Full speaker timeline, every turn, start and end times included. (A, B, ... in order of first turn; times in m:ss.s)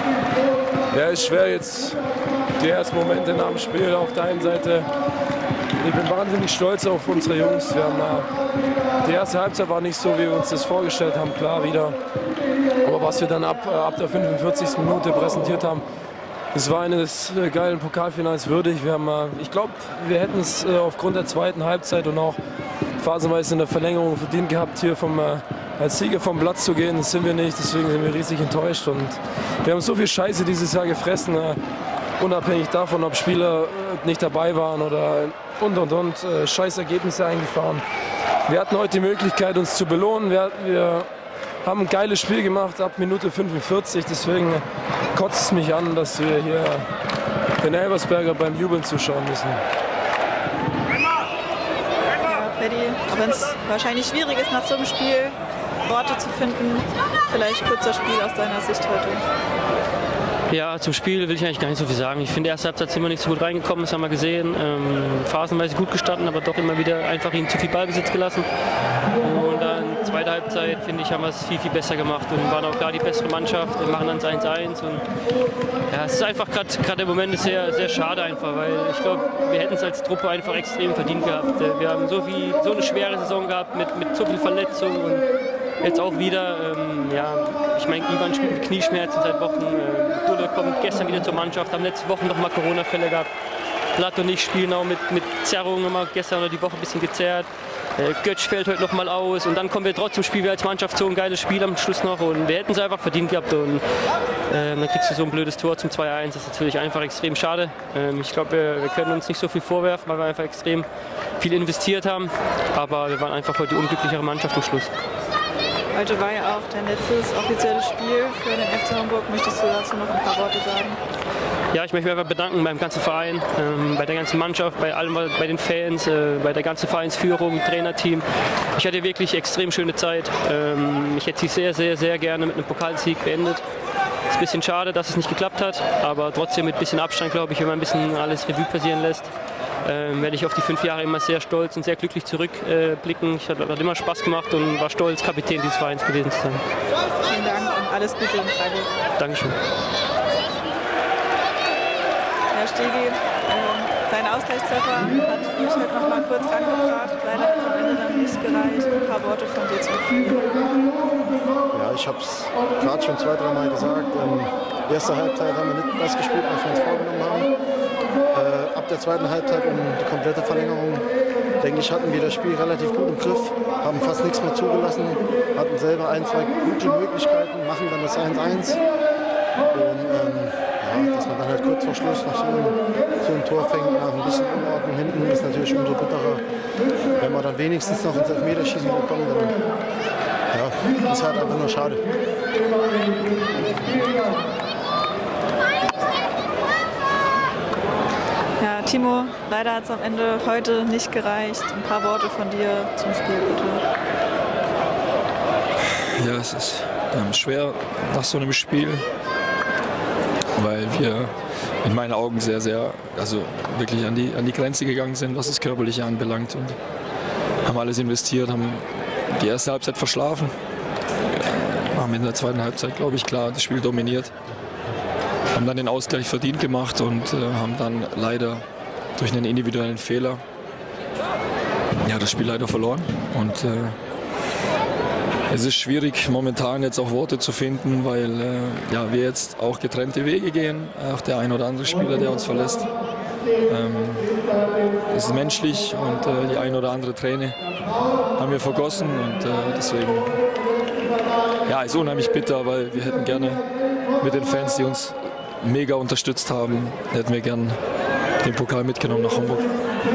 0:00.9-0:02.0 A
0:02.6-0:04.9 A
0:05.8-0:08.3 A
0:09.0-0:12.0 A
0:12.8-0:15.8 A
0:16.5-0:22.4 A
0:23.0-0:31.6 A
0:32.2-0:37.8 A
0:38.4-0:41.0 A
0:41.6-0:46.9 A
0:47.6-0:49.6 A
0:52.2-0:59.2 B
1:00.5-1:08.5 C
1:09.2-1:15.1 C
1:15.9-1:33.3 C
1:33.9-1:43.8 C
1:44.5-1:54.9 C
1:55.9-2:01.0 B
2:01.7-2:13.6 C
2:14.3-2:19.3 C
2:19.8-2:26.6 C
2:27.3-2:29.0 B
2:29.2-2:29.6 C
2:32.5-2:41.0 B
2:41.7-2:47.5 D
2:48.3-2:58.8 D
2:59.7-3:06.4 D
3:07.2-3:09.6 D
3:10.5-3:14.3 D
3:18.6-3:23.8 B
3:25.8-3:29.1 E
3:30.6-3:36.8 E
3:37.6-3:40.5 E
3:41.3-3:44.3 E
3:45.5-3:48.6 E
3:49.2-3:50.4 E
3:52.1-3:54.0 E
3:55.5-4:02.9 E
4:03.7-4:04.3 E
4:05.1-4:07.6 E
4:08.4-4:10.4 E
4:11.6-4:13.7 E
4:14.2-4:17.8 E
4:18.4-4:19.9 E